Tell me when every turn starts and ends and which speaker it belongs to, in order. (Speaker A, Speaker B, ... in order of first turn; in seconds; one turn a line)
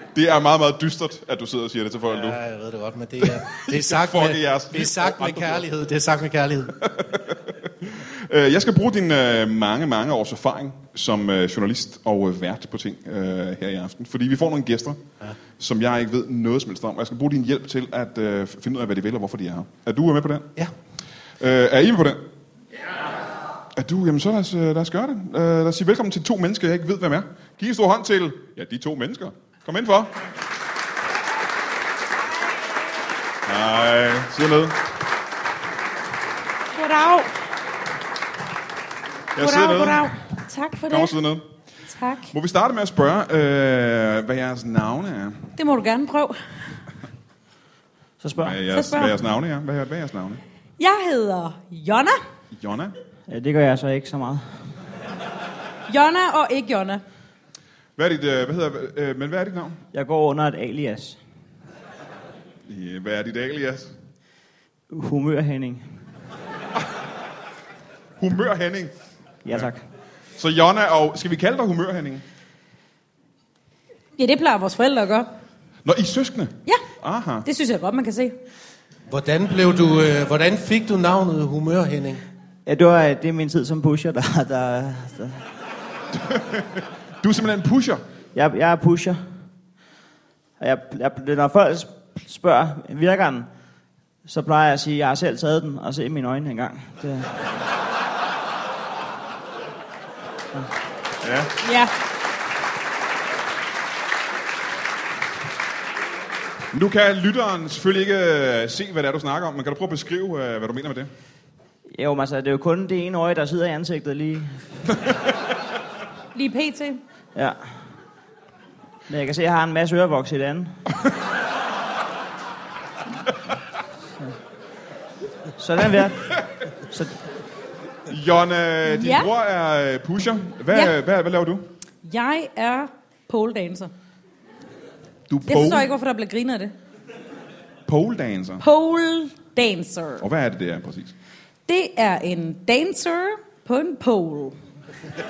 Speaker A: 0.1-2.4
Speaker B: 2.1-6.8
Speaker A: 3.3-5.6
Speaker A: 6.8-15.0
Speaker A: 15.6-20.5
Speaker A: 21.4-22.2
Speaker A: 23.8-30.1
Speaker A: 33.5-34.8
Speaker C: 36.7-37.4
Speaker A: 39.4-40.1
Speaker C: 39.4-41.2
Speaker A: 40.9-41.5
Speaker C: 41.9-42.3
Speaker A: 42.3-45.5
Speaker C: 45.6-46.4
Speaker D: 48.2-48.6
Speaker A: 48.4-50.4
Speaker C: 48.7-49.1
Speaker C: 50.8-52.2
Speaker A: 52.5-53.0
Speaker D: 53.3-54.4
Speaker C: 55.9-57.0
Speaker A: 58.0-59.8
Speaker D: 59.9-61.2
Speaker A: 62.7-63.9
Speaker D: 64.9-65.8
Speaker A: 68.2-68.9
Speaker D: 69.5-69.8
Speaker A: 70.4-72.2
Speaker C: 74.2-75.3
Speaker A: 75.8-77.5
Speaker C: 77.5-78.4
Speaker B: 79.1-82.2
Speaker D: 82.7-85.4
Speaker A: 86.2-88.0
Speaker D: 88.3-89.2
Speaker D: 90.6-93.5
Speaker D: 94.3-97.3
Speaker A: 101.2-101.5
Speaker C: 101.6-101.9
Speaker A: 106.7-111.1
Speaker D: 111.9-114.6
Speaker C: 116.3-117.0
Speaker D: 119.1-120.8
Speaker D: 125.6-126.3
Speaker D: 126.9-127.2
Speaker A: 128.1-131.7
Speaker C: 128.9-129.3
Speaker C: 132.0-133.9
Speaker A: 135.3-135.9
Speaker C: 135.5-136.7
Speaker A: 137.9-138.6
Speaker C: 138.6-140.2
Speaker A: 140.2-141.1
Speaker C: 141.7-144.6